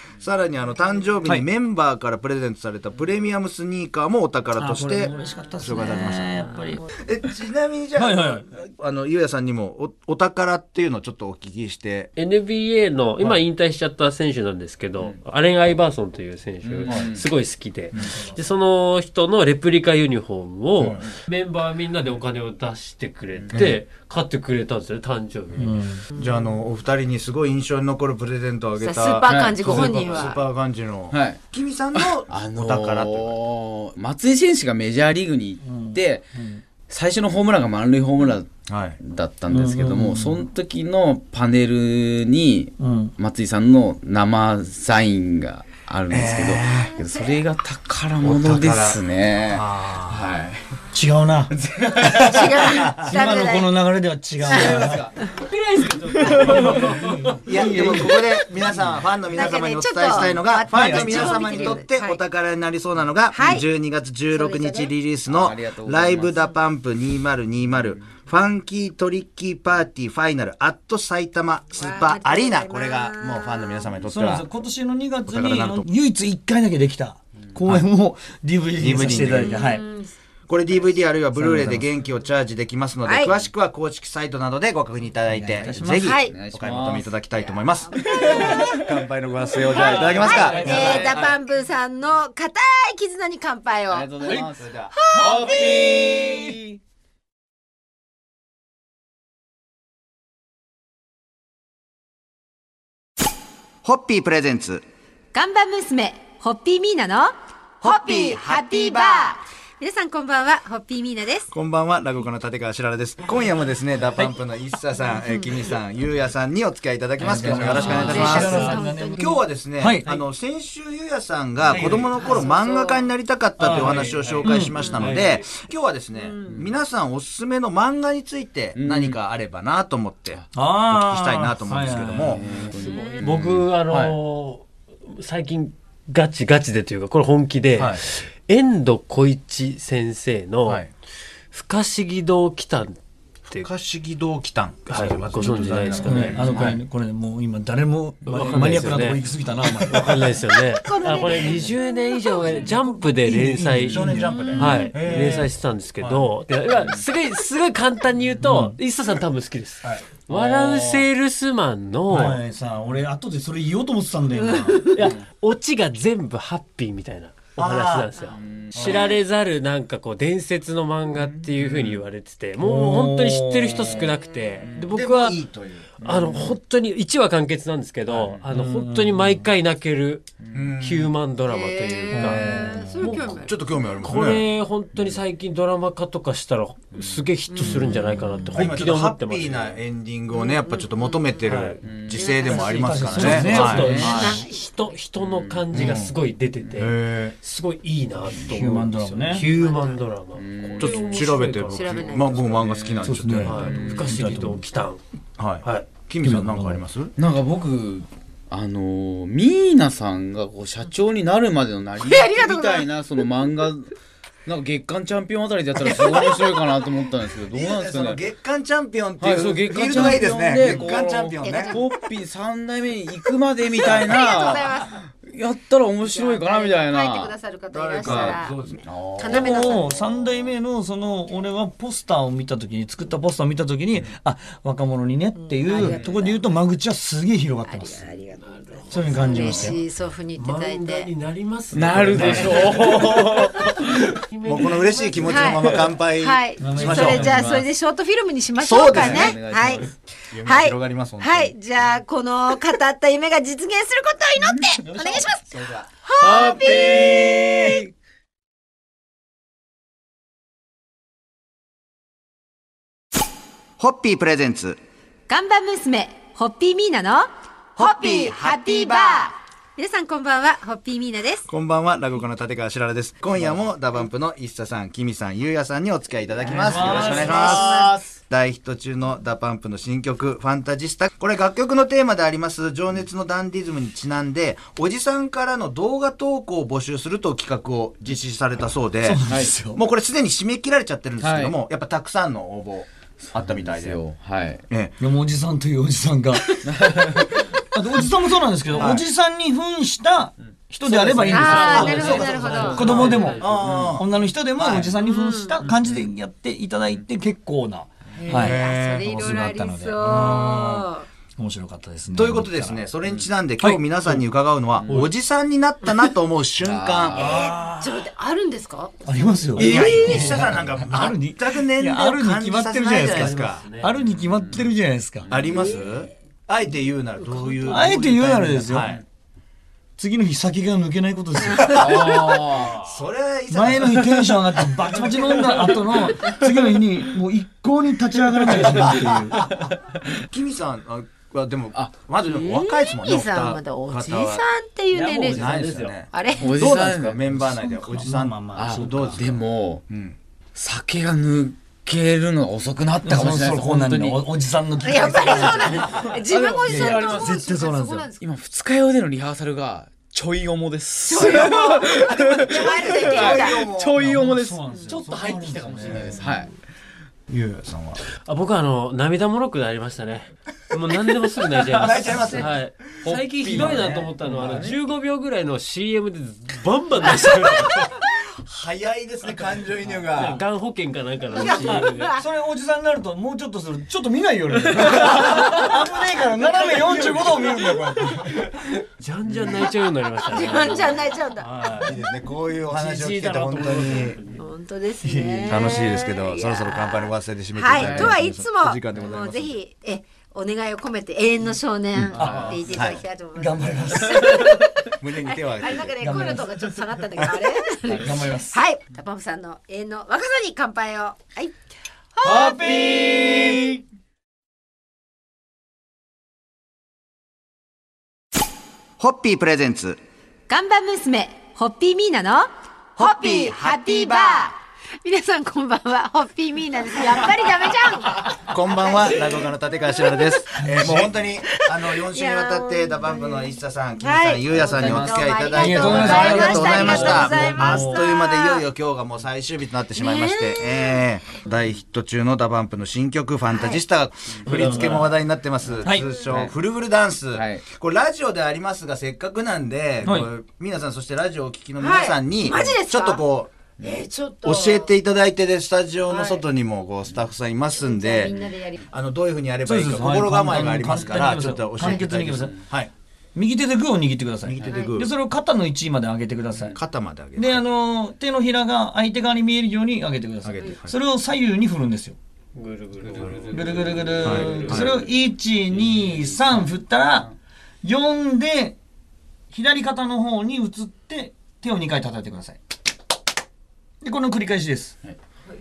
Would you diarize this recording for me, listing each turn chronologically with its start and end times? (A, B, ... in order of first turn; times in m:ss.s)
0:00.2-0:06.3 A
0:04.6-0:06.9 B
0:07.0-0:12.1 A
0:08.0-0:08.4 B
0:12.2-0:25.8 C
0:16.6-0:17.3 D
0:16.9-0:17.1 A
0:18.0-0:18.4 B
0:20.8-0:21.0 A
0:23.5-0:23.8 A
0:25.6-0:26.0 B
0:26.2-0:33.4 A
0:28.8-0:30.4 E
0:29.2-0:30.3 D
0:31.1-0:31.4 D
0:32.3-0:36.3 D
0:35.6-0:36.6 B
0:36.9-0:50.7 D
0:38.7-0:39.0 A
0:39.5-0:40.4 B
0:42.8-0:43.1 B
0:46.1-0:47.0 A
0:48.2-0:50.3 A
0:50.9-0:51.6 B
0:51.5-0:52.9 D
0:52.0-0:53.2 A
0:52.1-0:53.7 E
0:53.0-0:55.0 B
0:54.4-0:55.2 D
0:54.5-0:54.8 E
0:55.4-0:57.4 C
0:56.2-0:56.8 D
0:56.5-0:58.2 B
0:57.4-1:14.5 A
0:59.3-1:02.2 E
1:00.7-1:01.8 B
1:03.3-1:03.6 E
1:04.3-1:04.9 E
1:05.3-1:06.4 D
1:07.8-1:08.1 D
1:11.7-1:13.9 E
1:14.0-1:19.8 B
1:15.3-1:15.9 A
1:18.8-1:19.6 A
1:19.2-1:20.1 E
1:20.5-1:31.1 A
1:21.3-1:21.9 B
1:23.0-1:23.4 E
1:25.3-1:26.2 B
1:25.8-1:27.2 D
1:25.9-1:26.4 E
1:27.3-1:28.8 E
1:28.0-1:29.0 D
1:29.7-1:31.4 D
1:29.7-1:35.9 E
1:30.4-1:31.0 B
1:33.9-1:36.8 D
1:34.6-1:34.9 A
1:35.2-1:36.5 B
1:43.8-1:44.8 A
1:45.3-1:51.5 E
1:51.5-2:12.4 A
1:57.2-2:00.2 B
1:57.3-1:58.4 D
1:57.8-1:59.2 E
2:01.7-2:02.1 B
2:02.2-2:03.0 E
2:03.6-2:04.7 B
2:03.6-2:05.5 C
2:04.7-2:05.2 E
2:06.2-2:06.6 E
2:06.5-2:06.8 D
2:08.8-2:09.2 D
2:10.5-2:12.4 B
2:12.2-2:13.8 D
2:12.6-2:20.8 C
2:12.7-2:13.2 E
2:13.9-2:14.2 A
2:17.8-2:18.0 A
2:20.6-2:20.9 A
2:21.5-2:23.0 C
2:23.5-2:26.8 A
2:24.9-2:26.8 C
2:26.0-2:30.3 B
2:28.3-2:29.2 C
2:28.4-2:29.0 D
2:29.6-2:30.2 A
2:29.9-2:42.4 C
2:30.8-2:31.7 A
2:32.6-2:35.4 B
2:33.8-2:36.3 A
2:34.2-2:35.0 E
2:38.4-2:38.8 B
2:40.3-2:41.1 D
2:42.1-2:45.2 B
2:44.5-2:45.0 E
2:45.0-2:55.4 C
2:45.0-2:45.2 D
2:47.6-2:48.1 A
2:48.2-2:49.1 D
2:48.8-2:49.1 A
2:51.1-2:52.0 D
2:52.6-2:54.0 B
2:53.9-2:54.7 E
2:54.6-2:54.9 D
2:54.9-2:55.9 A
2:56.0-2:56.6 D
2:56.0-3:00.3 C
2:58.1-2:58.4 D
2:58.5-2:59.5 B
3:00.4-3:00.7 D
3:00.5-3:01.1 A
3:00.8-3:03.4 C
3:01.5-3:03.6 E
3:02.1-3:02.8 B
3:03.3-3:04.4 A
3:04.0-3:09.8 C
3:05.0-3:05.2 D
3:06.9-3:07.3 D
3:07.5-3:08.1 E
3:07.6-3:07.9 A
3:08.5-3:14.4 A
3:10.3-3:11.3 E
3:11.5-3:11.8 C
3:11.8-3:12.3 D
3:12.1-3:14.7 E
3:12.4-3:14.3 B
3:13.0-3:14.2 D
3:13.2-3:22.2 C
3:15.2-3:16.0 D
3:15.7-3:16.1 A
3:16.8-3:17.4 A
3:18.3-3:18.6 D
3:18.5-3:19.5 B
3:19.3-3:20.0 E
3:20.3-3:21.4 D
3:20.8-3:23.8 A
3:21.5-3:22.5 E
3:22.3-3:24.2 D
3:23.0-3:24.6 B
3:23.4-3:25.0 C
3:25.4-3:27.2 A
3:26.2-3:26.8 B
3:27.2-3:33.9 D
3:32.0-3:32.9 E
3:34.5-3:38.2 D
3:35.8-3:36.5 A
3:37.5-3:41.8 A
3:39.2-3:47.4 D
3:40.6-3:41.9 E
3:43.7-3:45.0 E
3:46.0-3:50.2 E
3:47.7-3:48.4 A
3:48.0-3:49.7 D
3:48.2-3:48.8 C
3:49.3-3:58.1 B
3:55.4-3:56.4 E
3:55.8-3:56.2 D
3:57.7-4:01.1 E
3:58.4-3:59.7 C
3:58.9-3:59.8 B
4:00.4-4:06.0 C
4:01.7-4:03.6 D
4:02.2-4:02.8 A
4:04.4-4:07.4 A
4:05.2-4:09.9 E
4:06.6-4:07.4 B
4:06.8-4:07.7 D
4:08.6-4:09.4 A
4:08.9-4:09.9 D
4:10.3-4:11.6 A
4:10.4-4:17.5 E
4:14.4-4:17.9 D
4:14.9-4:15.2 B
4:23.8-4:24.8 A
4:25.3-4:31.5 E
4:27.8-4:28.6 A
4:31.5-4:54.0 A
4:36.4-4:37.7 B
4:36.7-4:37.9 E
4:36.9-4:38.2 D
4:49.0-4:49.8 B
4:49.3-4:49.5 D
4:51.2-4:51.6 D
4:53.3-4:54.6 D
4:54.7-4:55.0 A
4:55.0-5:10.9 B
4:56.7-4:57.2 D
4:58.8-4:59.0 A
5:00.9-5:04.0 A
5:01.2-5:03.9 C
5:01.3-5:03.0 E
5:04.6-5:04.9 A
5:05.0-5:05.6 E
5:08.2-5:11.1 E
5:08.3-5:09.3 A
5:10.0-5:10.4 A
5:11.4-5:12.9 B
5:12.1-5:17.4 A
5:13.6-5:14.3 B
5:14.8-5:15.1 D
5:16.6-5:17.5 D
5:17.1-5:18.0 B
5:17.2-5:20.0 E
5:19.0-5:25.3 B
5:19.6-5:23.6 A
5:19.8-5:20.2 D
5:23.0-5:24.0 C
5:24.1-5:24.7 D
5:25.3-5:25.8 D
5:25.3-5:29.0 A
5:25.6-5:25.8 E
5:27.2-5:27.8 E
5:27.7-5:28.9 B
5:30.0-5:32.1 B
5:31.5-5:31.8 E
5:31.7-5:32.9 D
5:32.7-5:34.1 A
5:33.5-5:39.5 B
5:34.9-5:35.3 A
5:40.2-5:44.4 A
5:41.7-5:42.0 D
5:42.2-5:45.5 E
5:44.9-5:46.0 C
5:45.3-5:50.2 A
5:46.1-5:46.6 E
5:46.4-5:47.4 D
5:47.3-5:49.2 B
5:48.6-5:49.8 D
5:50.6-5:54.2 D
5:53.0-5:55.9 B
5:54.8-5:58.2 E
5:56.0-5:57.6 D
5:56.7-5:58.1 B
5:58.2-6:06.5 D
6:01.0-6:03.7 E
6:02.5-6:04.0 A
6:03.9-6:06.2 B
6:05.9-6:06.2 A
6:07.3-6:08.0 A
6:08.2-6:18.0 C
6:11.7-6:12.6 A
6:13.0-6:14.8 D
6:13.4-6:14.1 A
6:18.0-6:20.4 A
6:19.9-6:22.1 C
6:21.3-6:22.2 E
6:21.5-6:28.5 B
6:29.0-6:31.1 C
6:30.3-6:31.5 E
6:31.4-6:31.9 B
6:31.8-6:34.2 A
6:32.7-6:34.4 C
6:34.4-6:51.6 E
6:35.0-6:35.8 B
6:35.5-6:39.6 A
6:37.7-6:38.2 D
6:42.2-6:42.7 D
6:42.2-6:42.8 B
6:42.7-6:43.0 A
6:43.4-6:44.6 B
6:44.9-6:46.3 A
6:46.0-6:46.8 B
6:47.9-6:48.6 B
6:52.2-6:53.0 E
6:52.2-6:53.8 D
6:59.0-7:00.0 A
7:00.5-7:02.5 E
7:03.0-7:09.5 E
7:08.3-7:33.5 A
7:10.0-7:10.4 E
7:10.6-7:11.1 B
7:11.9-7:18.6 E
7:14.8-7:15.2 D
7:15.5-7:18.1 B
7:20.0-7:21.0 E
7:23.5-7:23.8 E
7:24.4-7:25.1 D
7:24.5-7:24.8 C
7:25.8-7:26.6 D
7:26.0-7:26.3 E
7:27.3-7:27.7 D
7:30.0-7:30.3 B
7:31.8-7:33.2 E
7:33.8-7:34.9 E
7:34.4-7:38.4 A
7:36.1-7:36.4 E
7:37.8-7:38.8 E
7:38.9-7:42.9 A
7:39.6-7:42.6 B
7:40.9-7:41.2 D
7:41.8-7:42.0 E
7:43.4-7:46.8 B
7:44.4-7:45.1 A
7:44.6-7:45.0 E
7:46.7-7:47.6 A
7:47.4-7:52.2 B
7:50.4-7:50.9 A
7:52.6-7:55.0 C
7:53.5-7:58.8 B
7:54.2-7:55.0 A
7:55.9-7:56.5 D
7:59.5-8:02.6 B
8:04.0-8:05.0 B